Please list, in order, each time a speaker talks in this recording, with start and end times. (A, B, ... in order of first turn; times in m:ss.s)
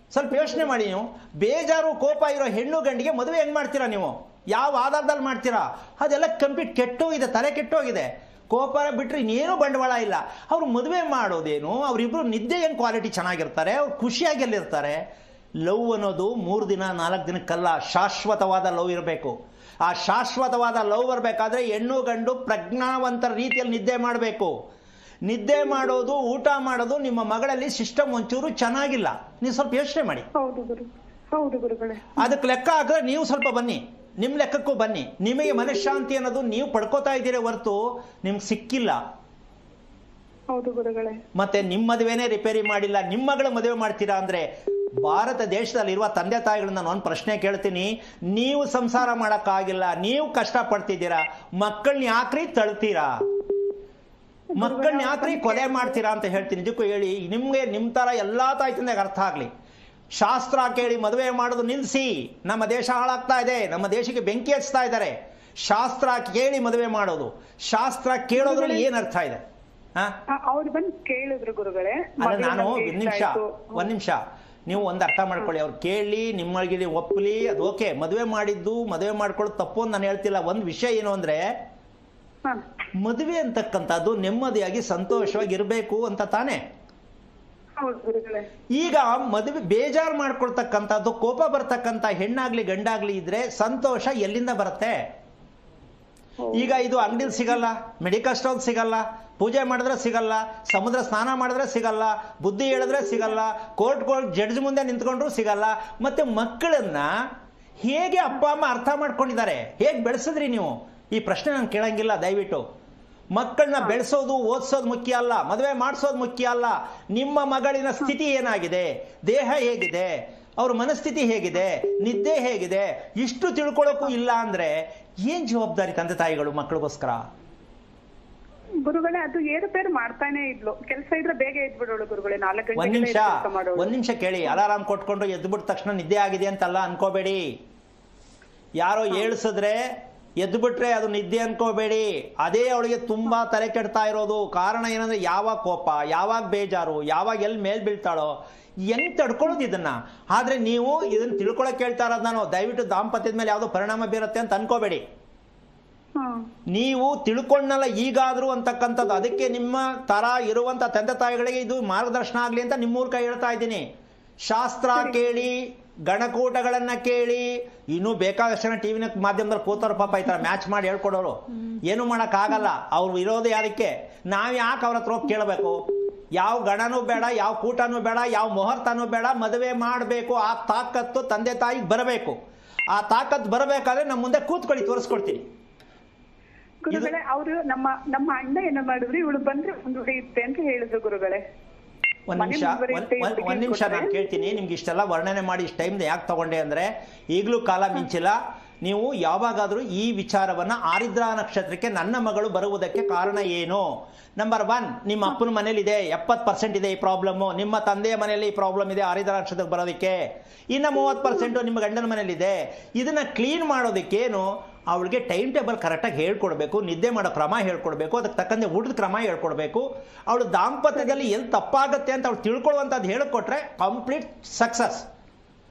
0:00.1-0:15.0 A
0:15.6-0:24.5 A
0:25.2-0:30.3 A
0:30.3-0:32.2 B
0:32.2-0:39.0 A
0:40.5-0:41.2 B
0:41.3-0:44.5 A
0:45.0-0:53.2 A
0:54.5-0:56.0 B
0:54.5-0:59.5 A
1:00.1-1:09.4 A
1:08.4-1:08.9 B
1:10.3-1:13.9 B
1:12.2-1:21.4 A
1:23.0-1:26.6 A
1:27.8-1:28.5 B
1:28.7-1:35.1 A
1:36.4-1:36.8 B
1:36.5-1:47.1 A
1:47.8-1:52.6 A
1:53.3-2:07.2 A
2:08.8-2:13.9 B
2:12.8-2:17.4 A
2:18.8-2:19.8 A
2:20.4-2:28.4 A
2:28.9-2:35.0 A
2:36.2-2:36.5 B
2:36.7-2:43.8 A
2:44.4-3:02.4 A
3:02.9-3:05.5 A
3:06.8-3:11.4 B
3:12.3-3:45.1 A
3:12.4-3:14.1 B